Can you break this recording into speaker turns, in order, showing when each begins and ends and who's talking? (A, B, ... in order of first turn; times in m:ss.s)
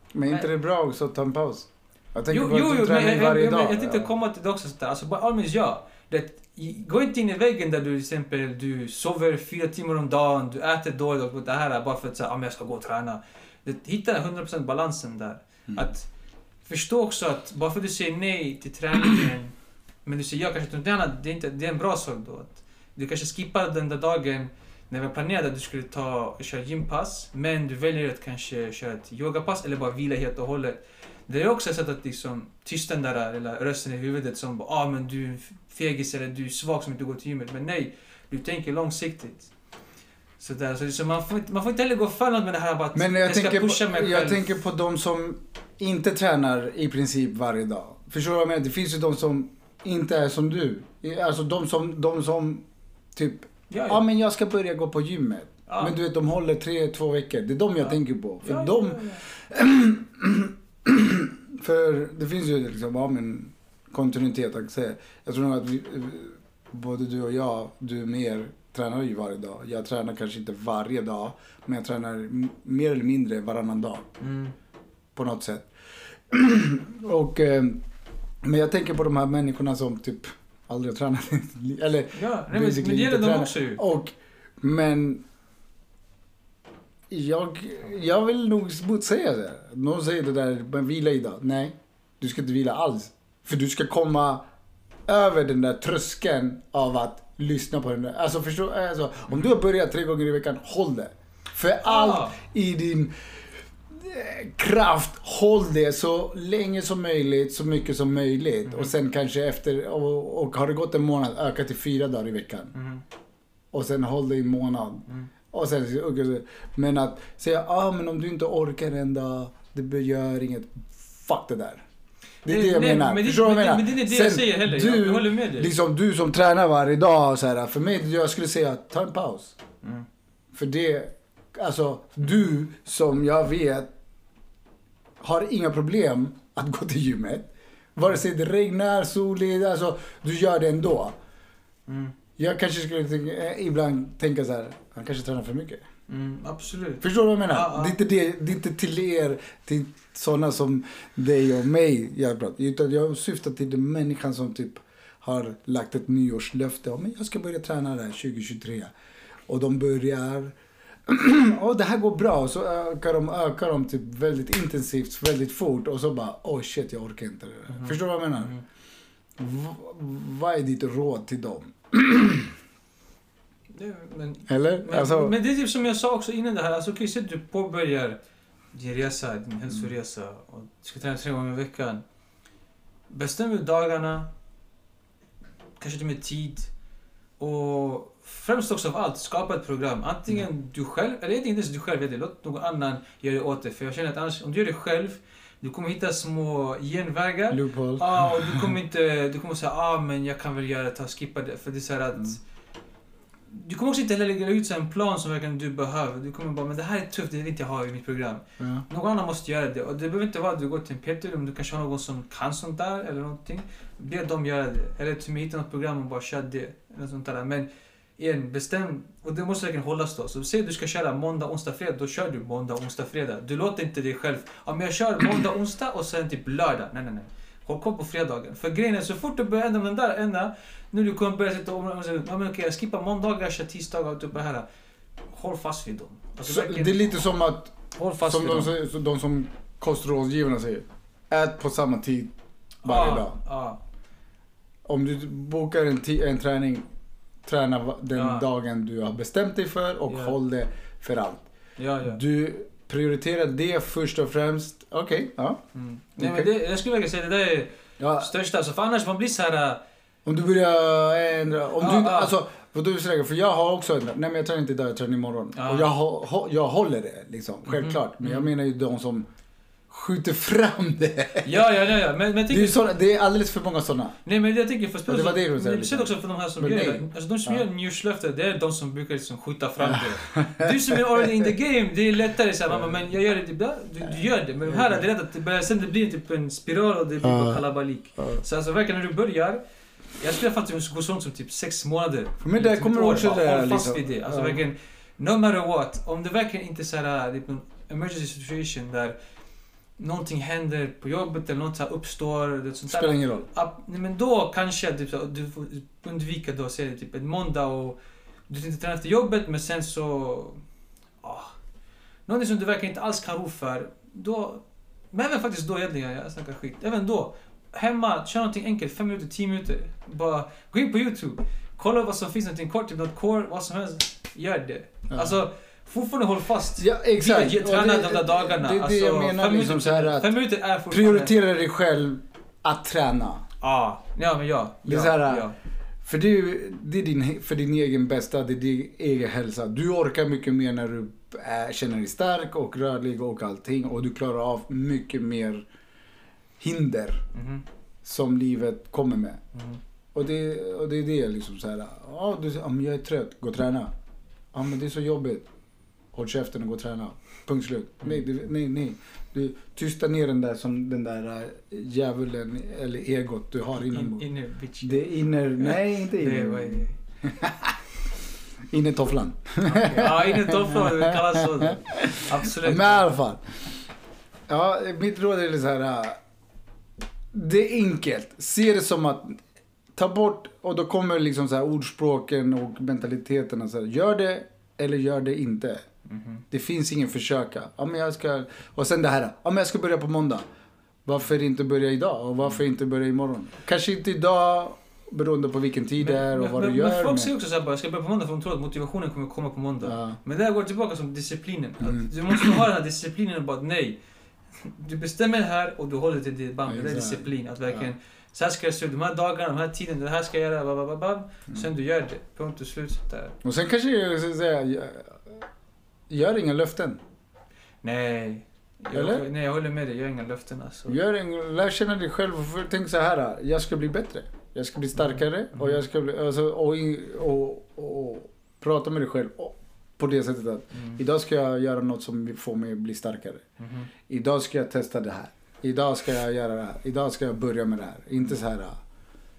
0:00.1-0:04.1 A
0:02.3-0:16.1 B
0:16.6-0:19.5 B
0:20.0-0:39.5 B
0:40.4-0:44.6 B
0:42.9-1:14.0 A
0:53.7-0:54.0 B
0:55.7-0:55.9 B
0:58.4-0:59.2 B
1:14.2-1:14.5 B
1:15.1-1:15.7 A
1:16.3-1:17.8 A
1:18.4-1:25.2 A
1:22.1-1:23.8 B
1:27.1-1:34.4 A
1:35.1-1:43.1 A
1:41.8-1:42.4 B
1:43.9-1:52.7 A
1:48.6-1:48.9 B
1:52.7-1:53.0 B
1:53.7-2:01.8 A
2:02.4-2:05.7 B
2:02.4-2:09.6 A
2:10.5-2:13.9 A
2:15.2-2:21.1 A
2:21.9-2:22.1 B
2:22.4-2:25.8 A
2:26.1-2:28.0 B
2:27.0-2:38.9 A
2:39.5-2:40.5 A
2:41.0-2:48.5 A
2:47.7-2:48.6 B
2:49.4-2:52.5 A
2:53.7-2:58.2 B
2:54.5-2:55.3 A
2:58.7-3:02.0 B
3:03.1-3:04.3 B
3:05.8-3:06.7 B
3:07.4-3:22.4 B
3:17.5-3:18.7 A
3:23.5-3:37.7 B
3:28.6-3:28.8 A
3:38.2-3:54.6 B
3:55.3-3:57.1 B
3:56.4-4:02.3 A
3:57.9-3:58.7 B
4:02.8-4:03.8 B
4:02.8-4:03.4 A
4:04.8-4:06.8 A
4:07.4-4:11.4 A
4:08.1-4:08.4 B
4:10.1-4:10.3 B
4:11.8-4:12.2 B
4:12.0-4:15.6 A
4:15.7-4:19.8 B
4:16.2-4:16.5 A
4:18.0-4:18.3 A
4:20.2-4:29.2 A
4:21.8-4:22.3 B
4:25.5-4:25.9 B
4:27.7-4:28.5 B
4:29.9-4:31.5 A
4:31.4-4:32.8 B
4:32.5-4:34.2 A
4:34.2-4:49.6 B
4:35.1-4:37.6 A
4:39.8-4:41.5 A
4:42.7-4:43.0 A
4:44.7-4:45.0 A
4:47.2-4:47.6 A
4:50.2-4:59.1 B
4:52.4-4:54.6 A
5:00.0-5:08.0 B
5:02.9-5:03.5 A
5:08.5-5:10.6 B
5:11.2-5:11.6 B
5:12.3-5:31.3 B
5:25.1-5:25.4 A
5:26.8-5:30.3 A
5:30.9-5:33.4 A
5:33.6-5:35.6 B
5:34.8-5:35.5 A
5:36.0-5:45.6 A
5:46.6-5:47.2 A
5:47.3-5:47.6 B
5:48.0-5:49.4 A
5:50.1-5:53.9 A
5:54.5-5:55.4 A
5:56.1-6:04.2 A
6:03.9-6:07.0 B
6:04.8-6:07.8 A
6:08.7-6:13.4 A
6:09.6-6:13.1 B
6:14.5-6:16.2 A
6:17.3-6:19.4 A
6:20.0-6:25.8 A
6:26.1-6:26.4 B
6:26.5-6:30.4 A
6:31.0-6:37.3 A
6:36.0-6:44.0 B
6:39.8-6:40.2 A
6:41.8-6:42.6 A
6:44.6-6:53.4 B
6:46.7-6:47.8 A
6:53.4-6:55.4 A
6:56.1-6:57.0 A
6:57.8-7:01.0 B
6:58.9-6:59.2 A
7:00.9-7:13.4 A
7:05.0-7:05.8 B
7:13.6-7:13.9 B
7:14.1-7:18.8 A